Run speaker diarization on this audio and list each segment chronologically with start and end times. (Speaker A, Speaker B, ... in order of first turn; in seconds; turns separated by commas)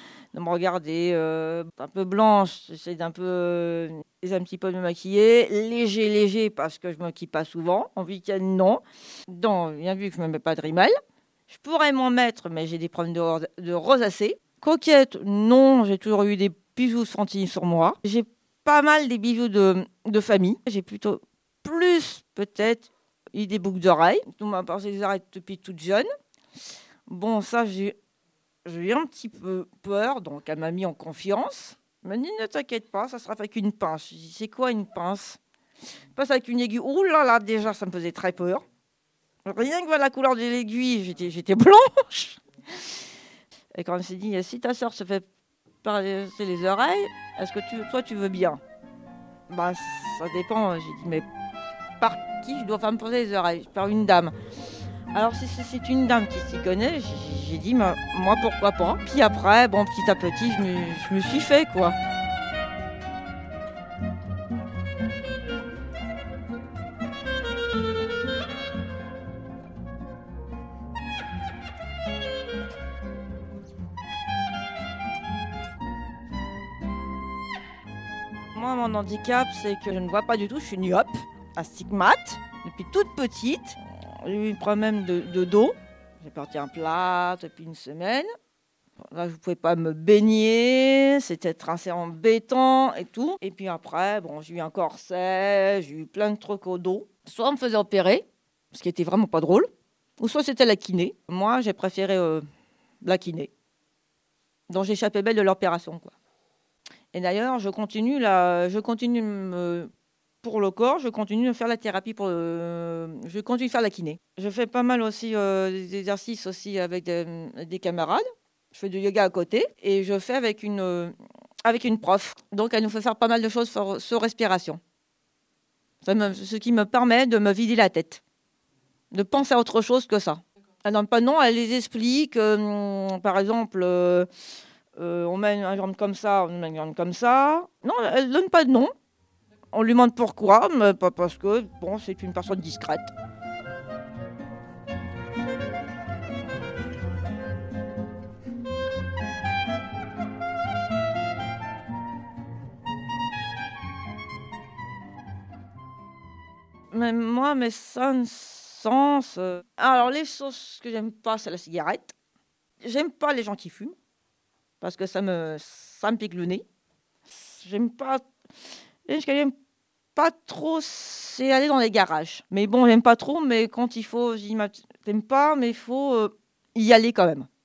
Speaker A: 0.3-10.9, Speaker A: 11.5-26.1, Speaker A: 27.1-27.9, Speaker A: 28.7-35.4, Speaker A: 36.2-38.6, Speaker A: 39.5-42.4, Speaker A: 43.8-45.2, Speaker A: 45.8-48.6, Speaker A: 49.5-51.3, Speaker A: 52.0-54.3, Speaker A: 55.1-62.0, Speaker A: 78.5-88.3, Speaker A: 89.1-99.7, Speaker A: 100.2-102.4, Speaker A: 103.0-103.5, Speaker A: 104.7-106.1, Speaker A: 107.1-109.9, Speaker A: 110.4-121.1, Speaker A: 121.7-124.8, Speaker A: 126.0-128.2, Speaker A: 129.1-134.3, Speaker A: 135.0-138.9, Speaker A: 139.7-143.1, Speaker A: 156.9-162.1, Speaker A: 162.8-163.9, Speaker A: 164.8-166.6, Speaker A: 167.3-168.2, Speaker A: 169.1-169.5, Speaker A: 170.2-177.5